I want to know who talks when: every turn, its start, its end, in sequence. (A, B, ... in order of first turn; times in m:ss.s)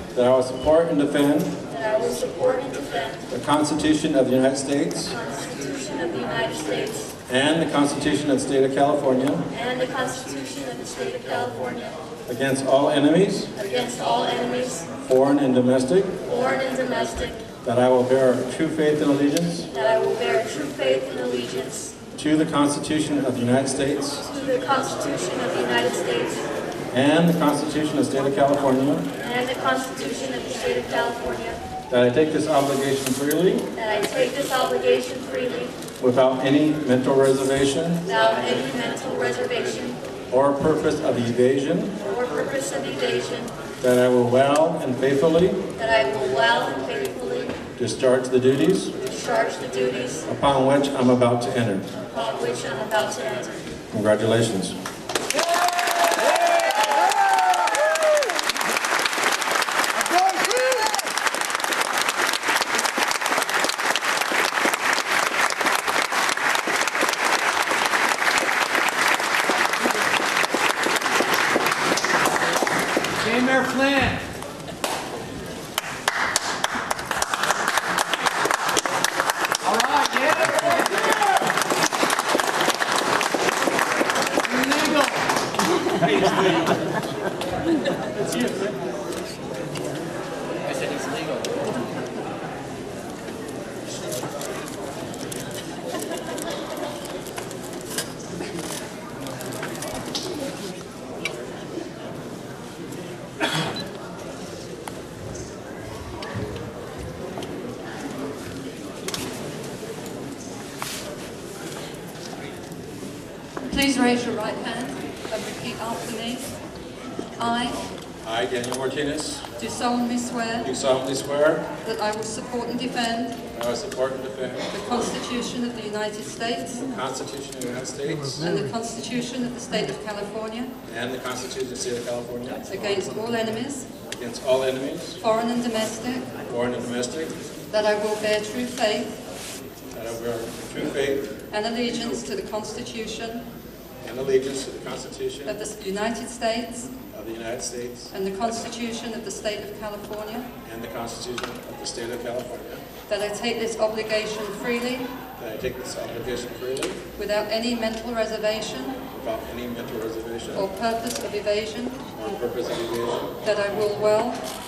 0:00.1-0:01.6 A
0:01.7-0:03.3 B
0:03.3-0:05.2 A
0:05.1-0:07.2 B
0:07.3-0:09.5 A
0:09.5-0:12.0 B
0:12.3-0:13.5 A
0:13.6-0:15.0 B
0:15.0-0:16.2 A
0:16.2-0:17.5 B
0:17.6-0:19.7 A
0:19.7-0:22.0 B
0:22.2-0:24.2 A
0:24.2-0:26.5 B
0:26.9-0:29.1 A
0:29.2-0:31.6 B
0:31.9-0:33.7 A
0:33.8-0:35.8 B
0:36.0-0:38.1 A
0:38.1-0:40.0 B
0:40.3-0:42.0 A
0:42.0-0:43.5 B
0:43.8-0:45.6 A
0:45.8-0:47.6 B
0:47.8-0:49.0 A
0:49.0-0:50.3 B
0:50.3-0:51.9 A
0:52.0-0:53.6 B
0:53.9-0:54.8 A
1:13.2-1:14.3 C
1:19.6-1:21.2 C
1:24.4-1:25.2 C
1:26.1-1:26.7 A
1:28.2-1:28.7 A
1:53.6-1:56.6 D
1:57.4-1:57.8 D
1:58.2-1:59.4 A
1:59.6-2:00.7 D
2:00.6-2:01.7 A
2:01.8-2:03.4 D
2:03.5-2:04.7 A
2:04.7-2:06.8 D
2:06.8-2:08.5 A
2:08.4-2:10.7 D
2:10.9-2:12.8 A
2:12.7-2:13.9 D
2:14.1-2:15.2 A
2:15.2-2:16.4 D
2:16.4-2:17.4 A
2:17.7-2:19.2 D
2:19.9-2:21.4 A
2:21.5-2:23.5 D
2:24.0-2:25.6 A
2:25.5-2:26.9 D
2:27.1-2:28.1 A
2:28.1-2:30.5 D
2:30.6-2:32.8 A
2:33.1-2:35.2 D
2:35.4-2:37.0 A
2:37.2-2:39.0 D
2:39.1-2:40.7 A
2:40.6-2:42.0 D
2:42.1-2:43.4 A
2:43.4-2:44.4 D